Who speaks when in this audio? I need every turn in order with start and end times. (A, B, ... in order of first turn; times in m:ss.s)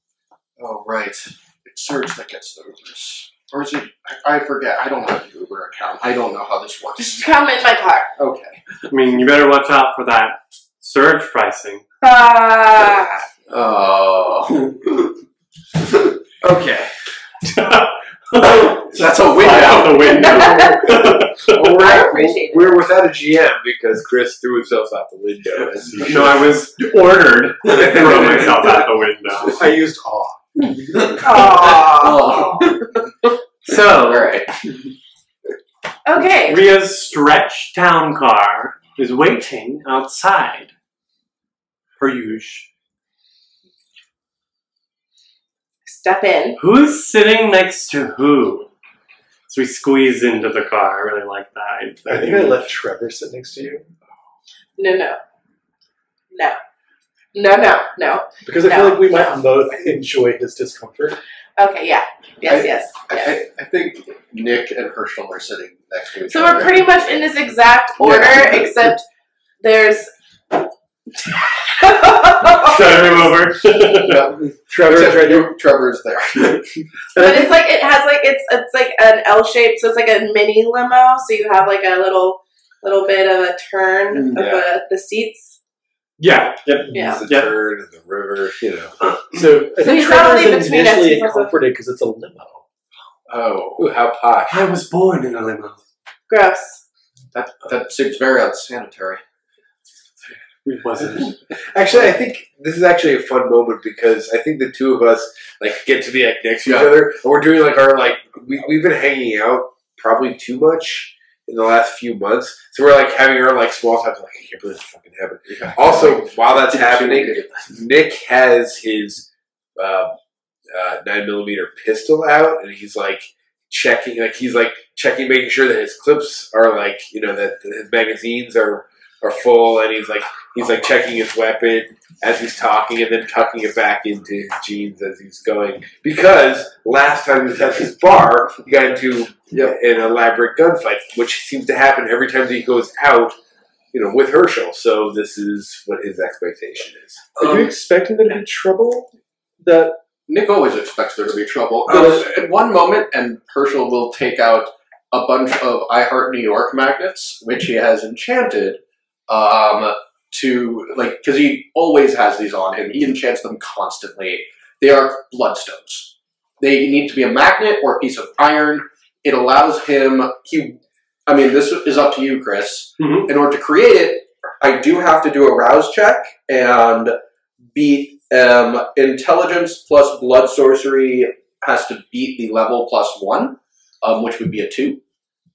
0:00.6-0:07.2 A
0:07.0-0:08.1 B
0:08.2-0:08.7 A
0:08.9-0:11.8 C
0:12.0-0:13.2 B
0:13.5-0:15.2 A
0:16.4-0:16.9 D
0:17.5-0:17.7 D
0:17.6-0:21.7 C
0:18.8-0:20.8 A
0:20.1-0:22.9 B
0:21.2-0:26.4 D
0:25.6-0:26.3 A
0:25.9-0:29.6 C
0:27.6-0:28.9 D
0:27.8-0:28.4 A
0:29.6-0:30.5 E
0:30.7-0:33.3 A
0:31.2-0:32.3 B
0:32.0-0:32.8 C
0:33.6-0:34.3 C
0:33.9-0:34.6 A
0:36.0-0:36.6 B
0:36.4-0:40.7 C
0:42.0-0:42.7 C
0:45.8-0:46.6 B
0:46.6-0:48.7 C
0:49.5-0:52.6 C
0:52.0-0:53.9 E
0:54.8-0:55.2 B
0:56.3-0:56.6 B
0:57.3-0:59.6 B
0:58.4-1:01.2 E
1:01.6-1:03.3 B
1:02.4-1:07.2 A
1:06.3-1:09.0 B
1:08.0-1:08.9 A
1:09.6-1:10.6 B
1:11.1-1:13.4 B
1:12.6-1:14.2 C
1:14.0-1:15.5 E
1:14.7-1:16.8 A
1:17.1-1:25.6 B
1:17.2-1:17.5 E
1:24.1-1:24.4 A
1:24.3-1:24.6 D
1:26.2-1:27.6 C
1:26.9-1:29.0 D
1:26.9-1:27.2 B
1:29.0-1:29.7 C
1:29.3-1:32.6 E
1:29.8-1:31.6 B
1:33.3-1:33.9 A
1:33.8-1:34.6 D
1:34.5-1:35.8 C
1:36.3-1:36.8 B
1:37.3-1:39.2 A
1:40.6-1:41.4 C
1:41.7-2:00.2 D
1:46.6-1:46.9 A
1:55.5-1:57.7 A
2:00.7-2:23.4 D
2:23.9-2:27.4 D
2:27.4-2:27.7 A
2:27.4-2:30.0 E
2:30.3-2:57.1 A
2:31.9-2:32.3 D
2:53.0-2:53.3 C
2:57.7-3:05.0 A